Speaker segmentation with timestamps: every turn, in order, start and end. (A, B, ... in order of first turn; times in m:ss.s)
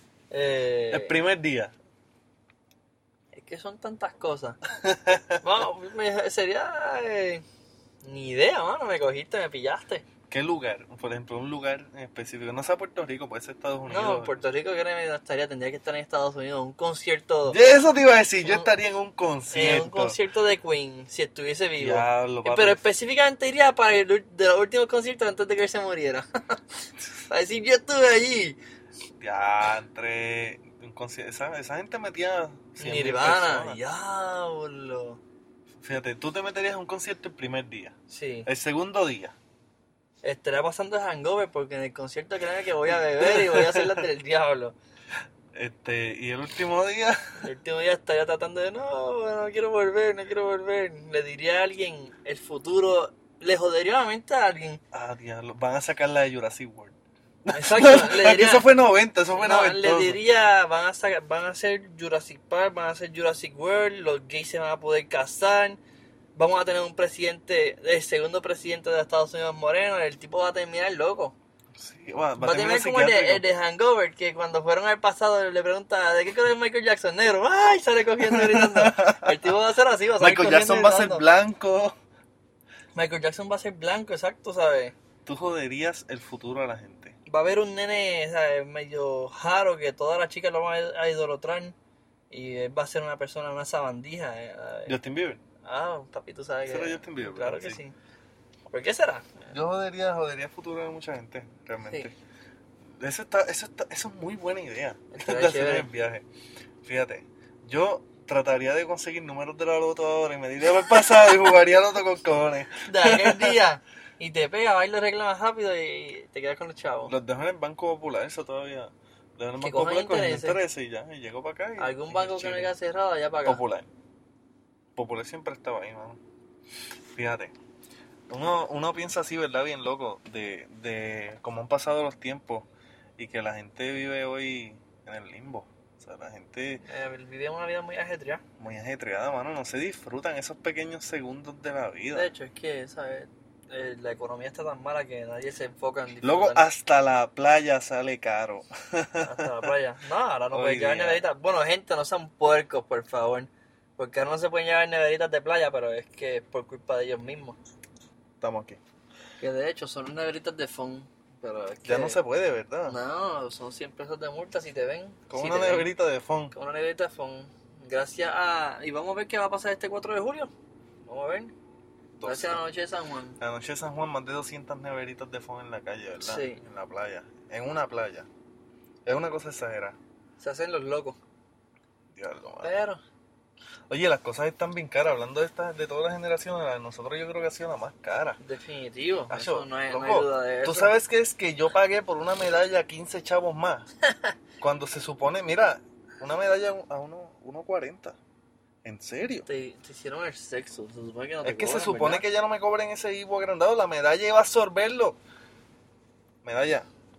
0:00.3-0:01.1 A
0:00.9-0:01.7 B
0:03.3-0:04.6 A
0:04.8-0:05.4 B
0:05.4-0:07.4 A
0:08.0-0:10.0 A
0:10.3-0:14.4 B
0:13.9-0:17.6 A
0:17.5-0:20.2 B
0:18.4-0:18.7 A
0:19.5-0:26.6 A
0:21.8-0:22.8 B
0:27.3-0:28.6 A
0:29.2-0:33.8 B
0:32.8-0:35.2 A
0:35.8-0:39.3 B
0:38.1-0:38.5 A
0:40.2-0:44.8 A
0:42.9-0:44.0 B
0:45.5-0:47.4 B
0:47.4-0:54.8 A
0:54.9-0:57.0 B
0:57.5-1:00.2 B
0:57.5-0:58.7 A
0:59.3-1:05.8 A
1:06.4-1:11.4 A
1:11.8-1:13.4 B
1:12.4-1:21.2 A
1:18.2-1:19.3 B
1:20.2-1:22.0 B
1:23.0-1:24.9 A
1:25.3-1:27.2 B
1:27.3-1:31.8 A
1:32.3-1:34.9 A
1:34.9-1:35.4 B
1:35.6-1:38.0 A
1:36.7-1:37.8 B
1:38.7-1:39.5 A
1:39.5-1:42.1 B
1:43.0-1:46.2 B
1:45.1-1:45.9 A
1:46.8-1:53.6 B
1:52.9-1:57.1 A
1:57.1-2:02.7 B
1:59.6-2:00.6 A
2:01.8-2:03.6 A
2:03.4-2:03.9 B
2:05.0-2:06.2 B
2:07.1-2:07.5 B
2:08.3-2:12.7 B
2:13.2-2:16.8 B
2:16.8-2:18.4 A
2:18.6-2:22.3 B
2:22.1-2:26.7 A
2:26.2-2:29.7 B
2:29.2-2:37.6 A
2:30.5-2:31.2 B
2:38.4-2:38.8 B
2:39.4-2:42.2 A
2:41.8-2:43.0 B
2:42.9-2:45.9 A
2:45.3-2:46.5 B
2:46.5-2:50.5 A
2:51.0-2:51.5 A
2:52.2-2:52.6 B
2:52.2-2:53.4 A
2:53.4-2:58.3 B
2:56.2-2:56.6 A
2:59.1-3:00.0 B
3:00.4-3:01.2 A
3:02.1-3:02.8 B
3:02.6-3:03.0 A
3:03.9-3:08.4 B
3:08.4-3:10.9 A
3:09.3-3:13.9 B
3:14.6-3:18.2 B
3:18.8-3:19.5 B
3:19.4-3:22.3 A
3:21.4-3:25.2 B
3:26.4-3:26.9 B